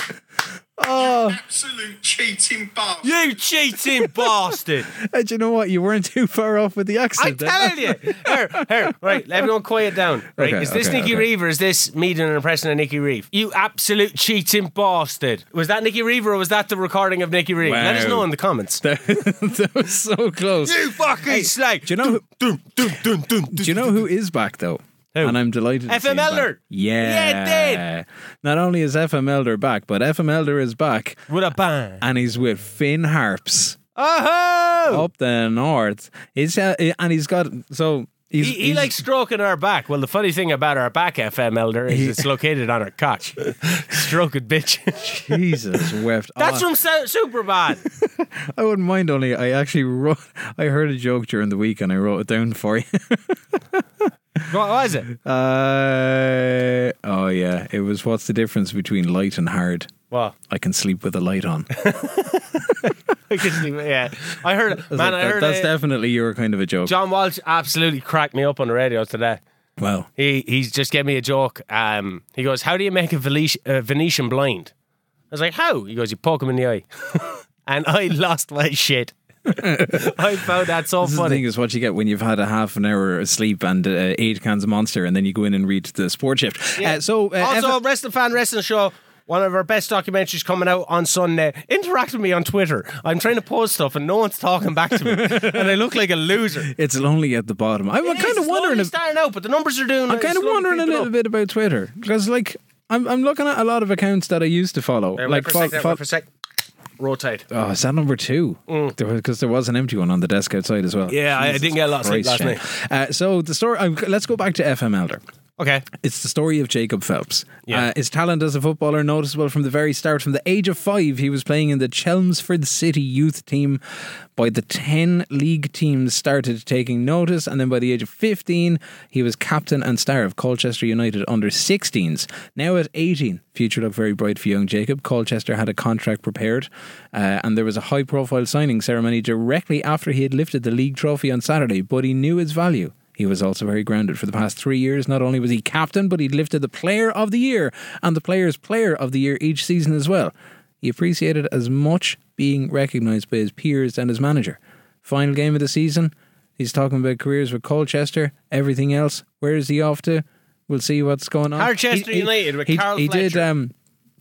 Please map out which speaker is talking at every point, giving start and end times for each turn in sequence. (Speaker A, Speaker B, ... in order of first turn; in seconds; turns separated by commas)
Speaker A: 0.8-1.4, Speaker B: 1.0-3.3, Speaker C: 3.0-4.9, Speaker A: 4.0-9.5, Speaker C: 7.2-18.8, Speaker A: 10.3-11.3, Speaker A: 17.6-18.3, Speaker A: 18.8-22.2, Speaker C: 20.6-23.9, Speaker A: 23.5-31.2, Speaker C: 25.1-27.9, Speaker C: 31.3-32.0, Speaker A: 32.0-33.8, Speaker C: 34.0-35.1, Speaker A: 34.9-39.0, Speaker C: 38.4-47.8, Speaker A: 41.9-42.2, Speaker A: 45.3-46.7, Speaker A: 47.9-53.8, Speaker C: 54.5-55.1, Speaker A: 55.1-59.9, Speaker A: 60.5-62.9, Speaker C: 61.8-62.4, Speaker C: 63.3-65.7, Speaker A: 64.7-66.9, Speaker C: 66.8-69.4, Speaker A: 69.8-70.1, Speaker C: 70.2-74.7, Speaker C: 75.3-81.4, Speaker A: 79.5-80.5, Speaker A: 81.0-87.8, Speaker C: 86.8-96.7, Speaker A: 95.0-95.7, Speaker A: 96.7-98.9, Speaker C: 98.0-101.1, Speaker A: 100.1-106.0, Speaker C: 105.2-106.3, Speaker C: 107.0-107.5, Speaker A: 107.5-115.2, Speaker C: 108.7-108.9, Speaker C: 111.1-112.6, Speaker C: 115.6-115.8, Speaker A: 115.9-123.8, Speaker A: 124.3-163.7, Speaker C: 161.6-163.5